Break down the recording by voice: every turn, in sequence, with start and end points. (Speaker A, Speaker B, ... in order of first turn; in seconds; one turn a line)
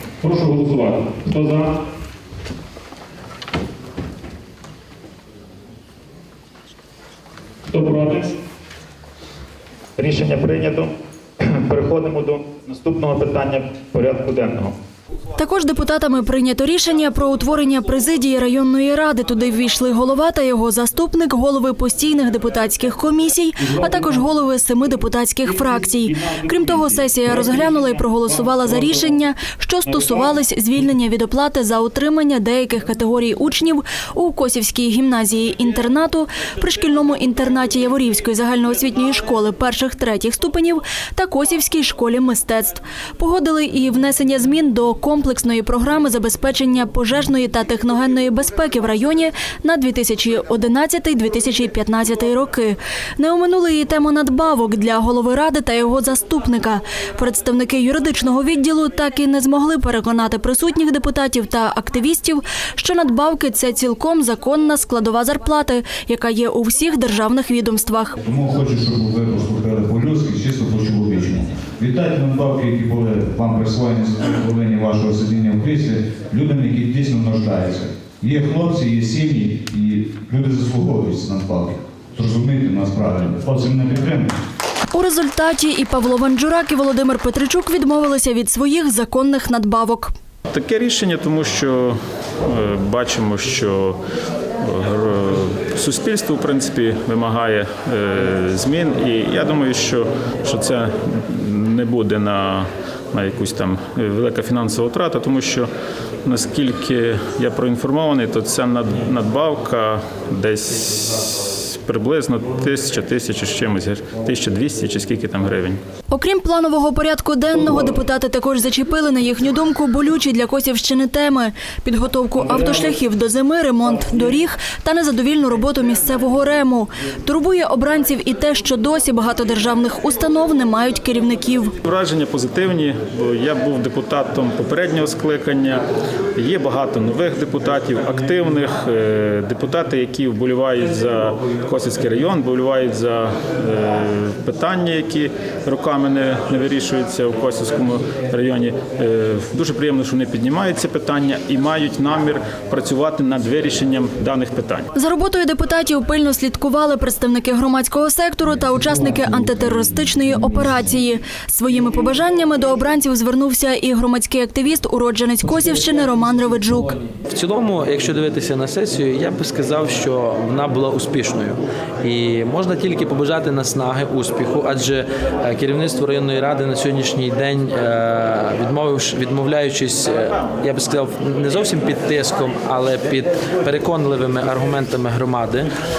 Speaker A: 0.2-1.8
Speaker B: 0.2-1.5
Speaker A: 7.7-8.4
Speaker A: 10.0-14.7
Speaker C: 15.3-68.2
Speaker D: 68.2-84.3
Speaker C: 84.9-90.1
Speaker B: 90.5-94.0
Speaker B: 94.6-105.7
Speaker B: 106.2-115.8
Speaker C: 116.1-131.8
Speaker B: 131.8-135.8
Speaker B: 136.4-154.9
Speaker C: 154.9-167.0
Speaker E: 167.3-185.7